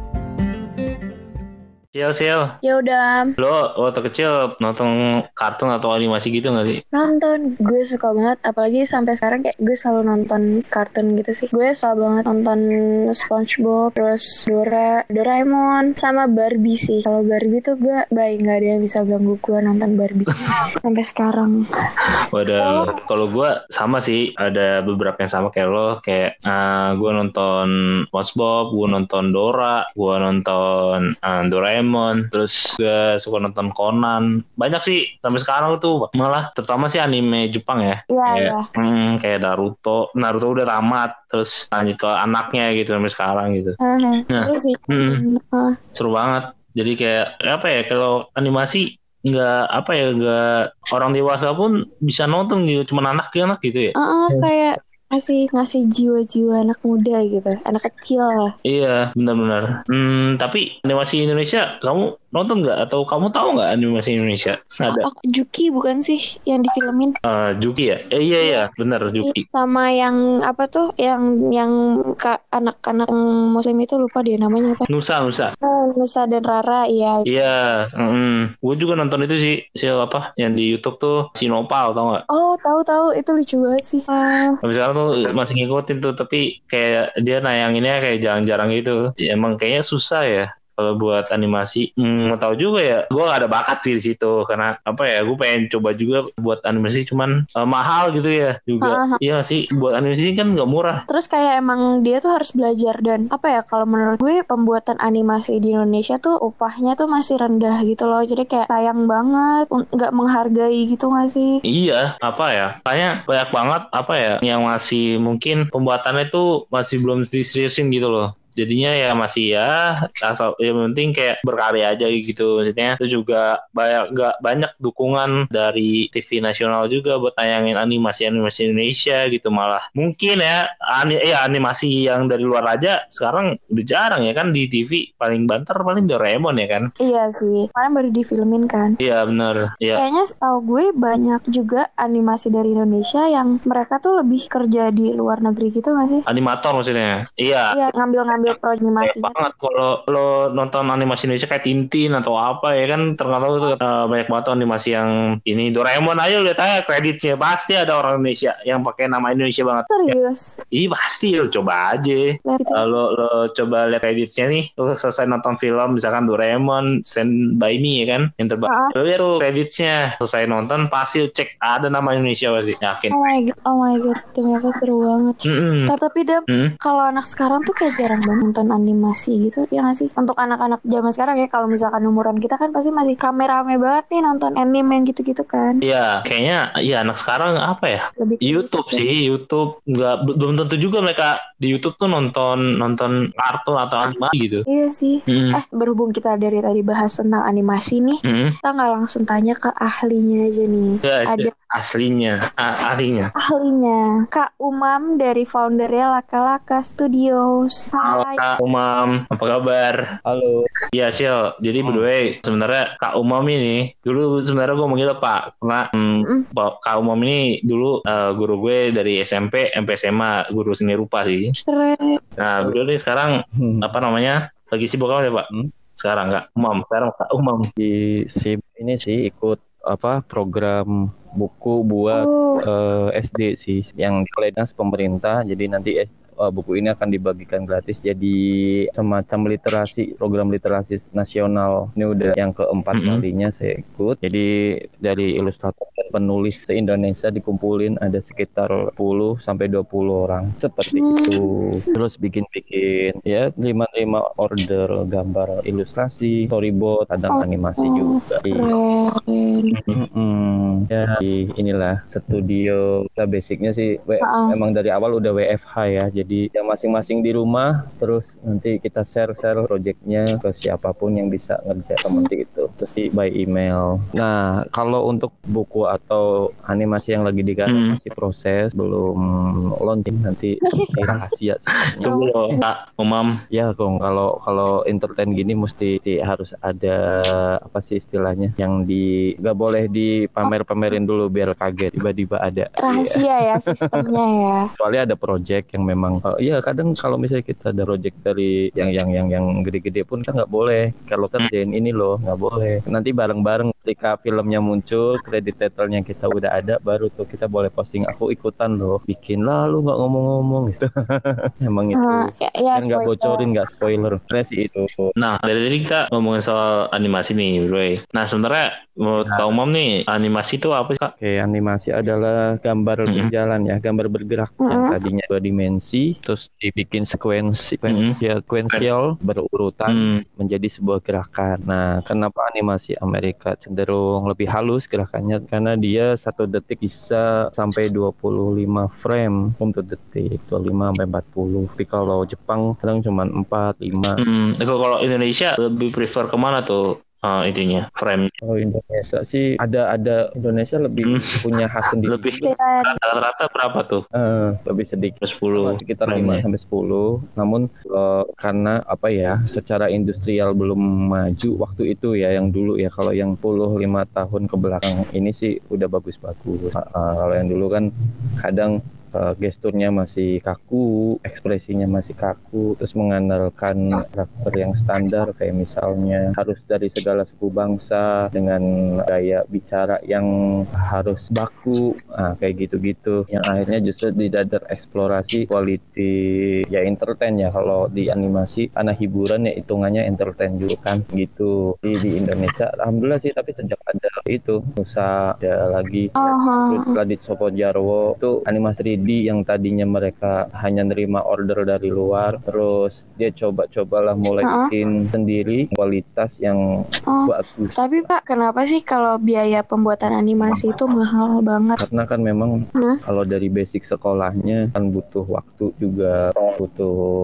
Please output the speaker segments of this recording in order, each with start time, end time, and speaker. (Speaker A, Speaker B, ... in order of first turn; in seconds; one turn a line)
Speaker A: 1.9-2.5
Speaker B: 2.6-3.3
Speaker A: 3.4-6.8
Speaker B: 6.9-21.6
Speaker A: 22.3-43.8
Speaker B: 22.6-23.0
Speaker B: 38.1-38.6
Speaker B: 43.8-45.8
Speaker A: 44.3-45.2
Speaker A: 46.0-54.5
Speaker B: 54.0-58.5
Speaker A: 58.6-65.0
Speaker B: 65.0-67.1
Speaker A: 67.3-69.4
Speaker B: 68.4-68.7
Speaker B: 69.2-74.9
Speaker A: 74.9-75.5
Speaker B: 75.6-77.2
Speaker A: 77.2-82.2
Speaker B: 82.3-84.6
Speaker A: 84.6-101.0
Speaker B: 98.8-99.2
Speaker B: 101.1-111.5
Speaker A: 111.7-136.9
Speaker B: 137.0-138.9
Speaker A: 139.0-140.0
Speaker B: 139.9-146.2
Speaker A: 146.3-147.7
Speaker B: 147.7-149.5
Speaker A: 149.0-160.1
Speaker B: 159.9-160.5
Speaker A: 160.7-173.1
Speaker B: 162.4-162.9
Speaker B: 168.7-168.9
Speaker B: 173.1-185.8
Speaker A: 175.5-175.9
Speaker A: 185.8-194.6
Speaker B: 188.2-189.1
Speaker B: 194.7-201.5
Speaker A: 195.3-195.6
Speaker A: 198.2-198.5
Speaker A: 201.0-203.3
Speaker B: 203.4-208.4
Speaker A: 208.0-210.0
Speaker C: 210.3-210.7
Speaker A: 210.9-221.5
Speaker C: 211.8-212.1
Speaker B: 216.2-216.4
Speaker B: 221.7-222.2
Speaker A: 222.4-227.7
Speaker C: 223.6-223.9
Speaker C: 227.8-238.4
Speaker B: 232.1-232.6
Speaker C: 238.9-244.5
Speaker A: 242.9-243.2
Speaker C: 245.0-258.7
Speaker B: 250.9-251.4
Speaker B: 257.3-259.8
Speaker C: 259.9-279.2
Speaker B: 264.2-264.5
Speaker A: 277.7-278.0
Speaker C: 279.8-282.2
Speaker B: 280.6-281.0
Speaker A: 282.0-283.3
Speaker B: 282.0-282.6
Speaker C: 283.5-294.1
Speaker B: 292.8-294.6
Speaker C: 294.8-315.0
Speaker B: 311.9-313.4
Speaker A: 315.2-321.1
Speaker C: 321.2-344.2
Speaker B: 324.6-325.0
Speaker A: 327.9-328.1
Speaker A: 329.9-330.2
Speaker A: 344.2-348.3
Speaker C: 348.4-352.5
Speaker A: 351.0-354.0
Speaker B: 352.4-353.0
Speaker C: 354.2-367.9
Speaker A: 355.2-356.4
Speaker C: 368.4-380.3
Speaker C: 380.9-386.1
Speaker C: 386.7-396.1
Speaker B: 396.2-397.0
Speaker C: 396.7-406.6
Speaker B: 404.4-404.7
Speaker B: 407.1-411.8
Speaker C: 407.2-408.1
Speaker C: 410.4-410.7
Speaker C: 411.8-412.5
Speaker C: 413.0-416.9